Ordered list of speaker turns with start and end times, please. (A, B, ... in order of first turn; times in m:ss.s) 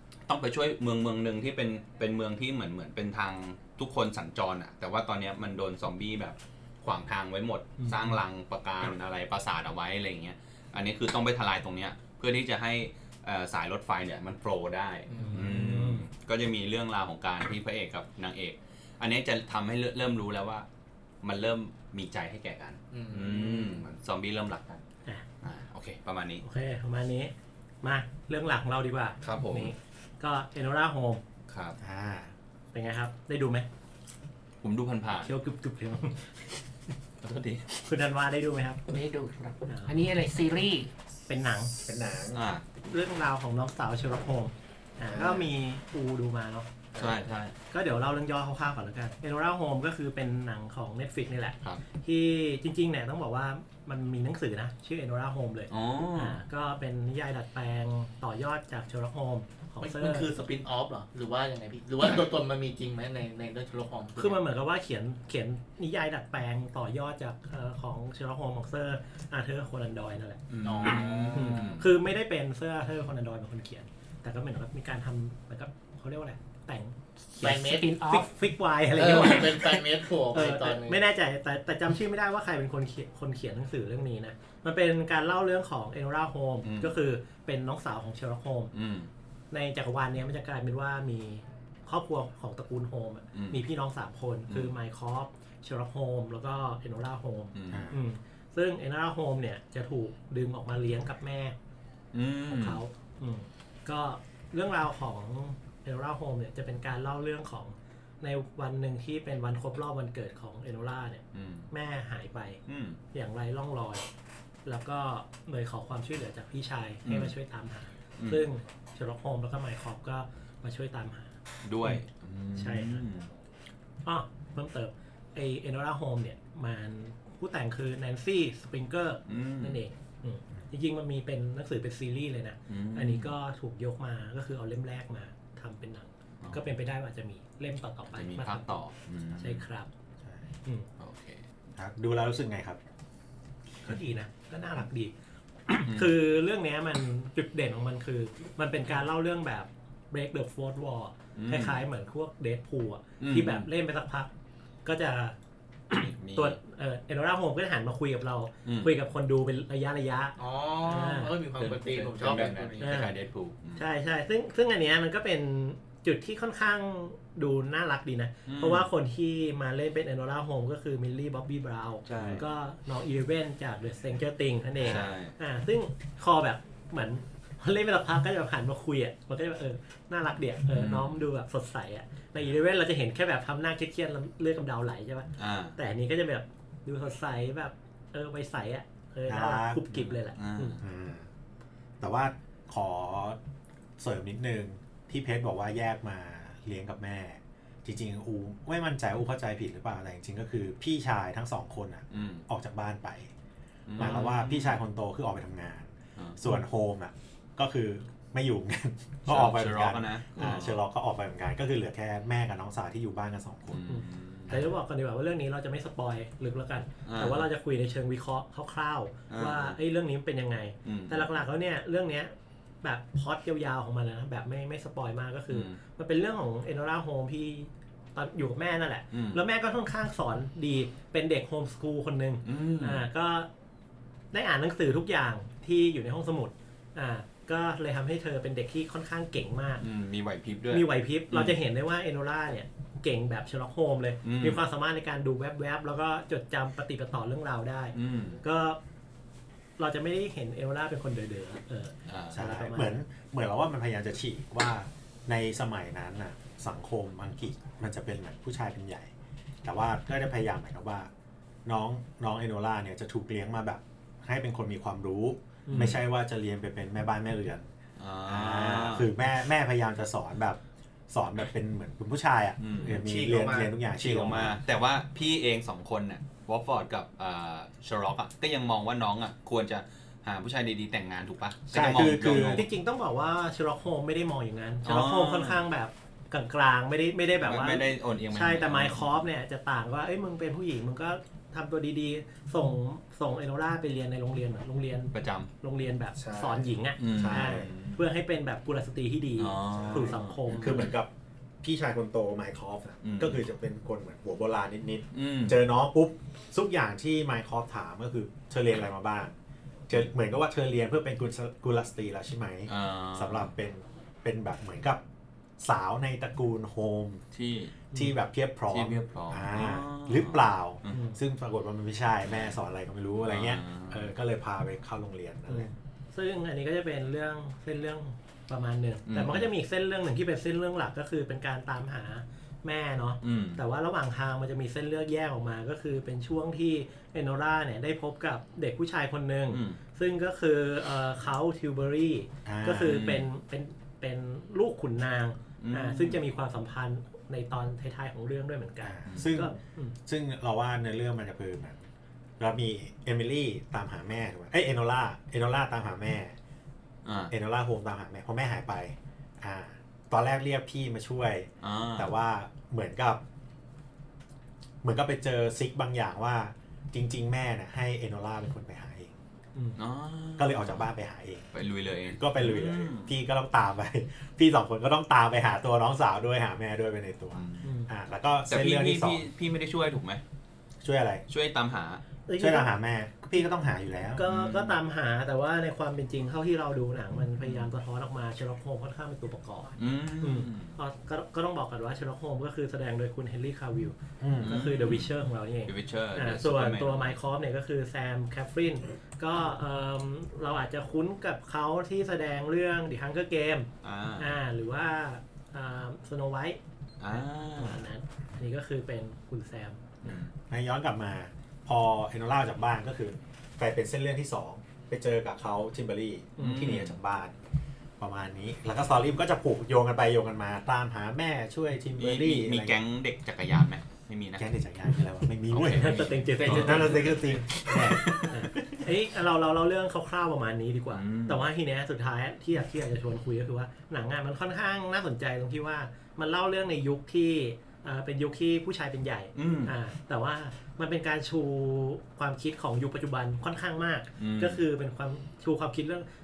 0:00.3-0:20.7 A
0:07.8-0:08.2 B
0:15.1-0:15.4 C
0:15.2-0:16.0 B
0:21.2-0:24.8 A
0:22.9-0:23.9 C
0:25.4-0:26.4 A
0:26.4-0:31.2 B
0:29.2-0:29.7 A
0:31.5-0:31.8 A
0:31.8-0:32.3 D
0:32.7-0:33.7 B
0:34.6-0:35.3 A
0:35.2-0:36.3 B
0:37.2-0:37.8 A
0:37.9-0:38.8 B
0:38.9-0:40.9 E
0:39.7-0:40.0 B
0:41.3-0:41.7 B
0:41.8-0:42.4 D
0:42.3-0:42.6 A
0:42.8-0:46.8 B
0:45.1-0:45.5 D
0:47.0-0:47.5 A
0:47.7-1:00.3 B
0:55.7-0:56.4 A
0:59.8-1:04.4 C
1:04.2-1:28.7 B
1:10.5-1:11.9 A
1:10.6-1:11.7 C
1:17.4-1:17.9 C
1:17.4-1:18.3 E
1:18.9-1:21.0 C
1:26.6-1:26.9 A
1:28.7-1:29.1 A
1:29.5-1:41.6 B
1:33.3-1:33.6 A
1:37.5-1:37.9 A
1:37.7-1:38.0 D
1:42.1-1:42.8 A
1:42.5-1:52.6 B
1:51.3-1:51.7 A
1:52.7-1:53.0 A
1:53.1-1:54.0 B
1:54.7-2:01.3 B
1:57.0-1:57.3 A
1:58.2-1:58.4 A
2:01.6-2:03.3 A
2:02.6-2:03.0 B
2:04.0-2:18.7 B
2:09.3-2:09.8 A
2:12.7-2:13.3 A
2:16.4-2:16.7 A
2:18.1-2:19.6 A
2:19.4-2:19.9 B
2:21.0-2:21.4 A
2:21.8-2:22.8 D
2:23.8-2:25.1 B
2:25.7-2:34.3 B
2:25.9-2:26.1 A
2:31.4-2:31.8 A
2:33.2-2:33.7 A
2:34.8-2:35.4 B
2:35.9-2:41.3 B
2:36.0-2:36.6 A
2:38.7-2:38.9 A
2:40.4-2:42.8 C
2:41.6-2:43.8 A
2:42.8-2:43.2 B
2:43.8-3:10.8 B
2:48.5-2:48.9 A
2:52.1-2:52.4 A
2:54.8-2:55.4 A
3:00.8-3:01.2 A
3:05.4-3:05.8 A
3:09.3-3:09.8 D
3:09.9-3:10.8 A
3:10.8-3:11.3 D
3:12.0-3:13.4 D
3:14.0-3:23.3 D
3:22.1-3:22.4 A
3:23.9-3:24.8 A
3:24.0-3:33.8 D
3:29.3-3:30.8 A
3:33.7-3:34.6 A
3:33.9-3:42.3 B
3:37.1-3:37.5 A
3:39.3-3:39.8 A
3:40.8-3:41.4 A
3:42.8-3:53.5 B
3:45.5-3:45.8 A
3:49.1-3:49.4 A
3:52.4-3:53.0 A
3:54.3-3:59.8 B
3:59.8-4:01.6 A
4:00.7-4:08.8 B
4:04.2-4:04.6 A
4:08.0-4:08.4 A
4:09.8-4:13.0 B
4:12.1-4:12.4 A
4:12.3-4:19.1 D
4:19.6-4:21.1 D
4:21.6-4:27.7 D
4:25.7-4:26.0 B
4:25.7-4:26.0 A
4:28.0-4:29.1 A
4:28.3-4:34.6 D
4:32.6-4:33.0 A
4:33.0-4:33.7 C
4:33.9-4:42.6 A
4:41.7-4:42.6 D
4:42.3-5:00.9 B
4:44.8-4:45.6 A
4:47.4-4:49.2 A
4:55.1-4:55.5 A
4:56.2-4:57.7 D
4:57.0-4:58.0 A
4:59.4-5:00.9 A
4:59.7-5:01.1 D
5:01.6-5:09.4 D
5:03.0-5:03.4 A
5:05.1-5:05.6 A
5:09.9-5:15.0 D
5:12.7-5:13.6 A
5:15.6-5:17.2 D
5:17.3-5:17.8 A
5:17.9-5:25.7 D
5:18.7-5:21.0 A
5:20.9-5:21.2 B
5:22.2-5:22.5 A
5:23.2-5:24.1 A
5:25.5-5:50.0 B
5:29.1-5:29.5 A
5:33.2-5:33.6 A
5:39.5-5:39.8 A
5:42.4-5:43.0 D
5:42.8-5:43.3 A
5:45.6-5:46.2 A
5:48.8-5:51.8 D
5:49.1-5:49.3 A
5:52.4-5:56.4 D
5:57.0-5:57.3 A
5:57.3-6:03.2 D
6:01.6-6:02.1 A
6:04.8-6:09.2 D
6:09.8-6:10.9 A
6:10.4-6:11.5 D
6:11.5-6:13.1 A
6:12.1-6:19.3 D
6:17.3-6:17.7 A
6:17.6-6:17.9 B
6:18.5-6:20.2 A
6:20.8-6:21.2 D
6:21.3-6:22.0 A
6:22.3-6:22.7 B
6:22.4-6:24.2 D
6:24.2-6:46.6 B
6:24.3-6:24.8 A
6:27.4-6:27.7 A
6:29.8-6:30.8 A
6:34.2-6:34.6 D
6:34.4-6:35.2 A
6:35.7-6:37.2 A
6:43.8-6:44.4 A
6:47.0-6:47.8 A
6:47.1-6:50.1 B
6:50.0-6:50.3 A
6:50.5-6:57.4 D
6:56.4-6:56.7 B
6:56.4-6:57.0 A
6:58.0-7:02.8 D
7:02.0-7:04.5 A
7:04.4-7:08.3 D
7:05.5-7:07.2 B
7:05.5-7:08.4 A
7:07.7-7:26.1 B
7:10.9-7:11.5 A
7:19.4-7:19.7 A
7:24.2-7:24.6 A